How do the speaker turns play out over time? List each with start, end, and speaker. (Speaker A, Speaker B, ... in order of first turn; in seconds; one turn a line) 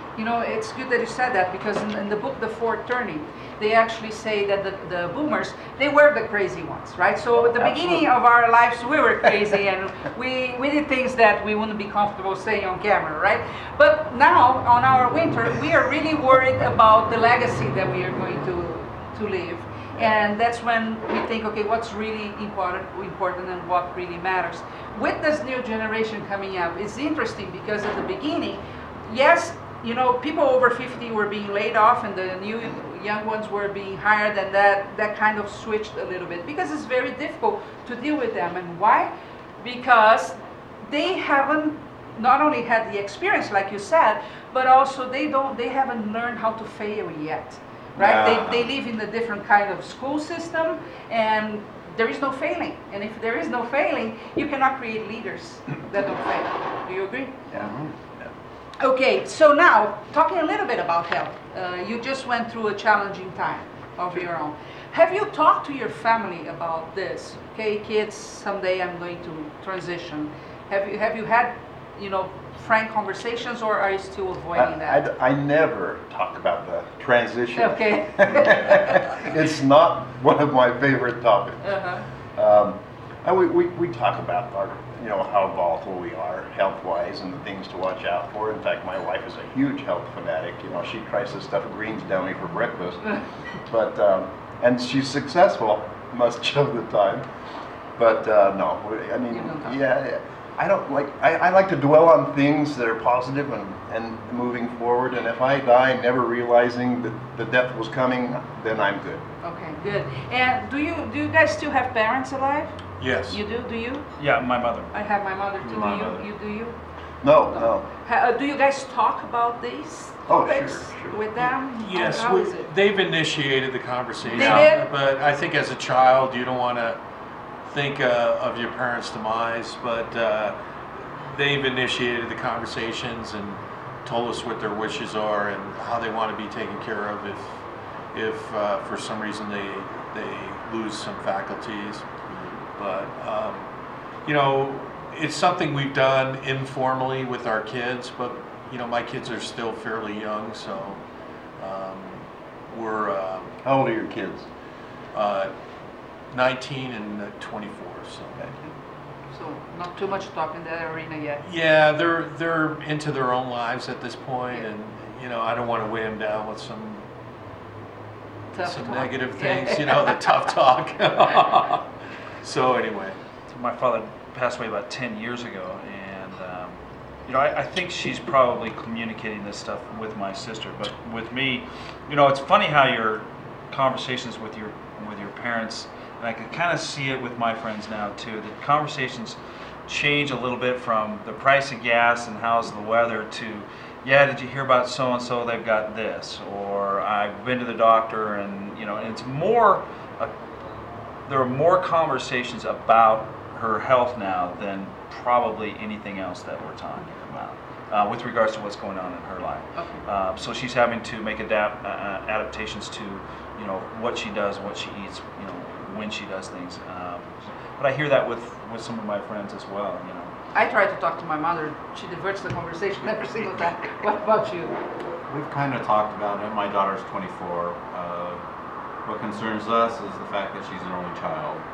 Speaker A: 0.2-57.5
Speaker B: 7.5-8.1
Speaker C: 48.0-48.7
Speaker B: 57.5-58.3
Speaker C: 57.5-58.0
Speaker A: 58.8-75.0
Speaker B: 74.5-81.7
Speaker A: 77.5-79.0
Speaker A: 81.6-82.0
Speaker B: 82.3-93.2
Speaker B: 93.7-97.3
Speaker B: 98.0-109.3
Speaker A: 99.3-99.8
Speaker A: 109.4-114.1
Speaker D: 113.0-113.4
Speaker E: 114.2-114.9
Speaker A: 114.9-116.8
Speaker C: 115.6-116.2
Speaker B: 117.2-117.9
Speaker A: 117.5-122.7
Speaker B: 120.3-121.2
Speaker D: 121.8-127.0
Speaker E: 124.3-124.7
Speaker A: 124.3-124.9
Speaker D: 127.7-142.1
Speaker C: 142.3-142.6
Speaker D: 142.8-143.7
Speaker D: 144.2-151.0
Speaker D: 151.6-153.5
Speaker B: 153.6-154.5
Speaker D: 155.1-155.5
Speaker D: 156.3-158.5
Speaker A: 159.3-161.4
Speaker D: 161.4-167.1
Speaker A: 168.5-170.2
Speaker D: 168.6-171.9
Speaker D: 172.4-173.2
Speaker E: 173.5-200.3
Speaker E: 201.3-220.3
Speaker A: 209.8-210.0
Speaker A: 220.5-224.8
Speaker C: 225.3-228.4
Speaker C: 229.1-231.6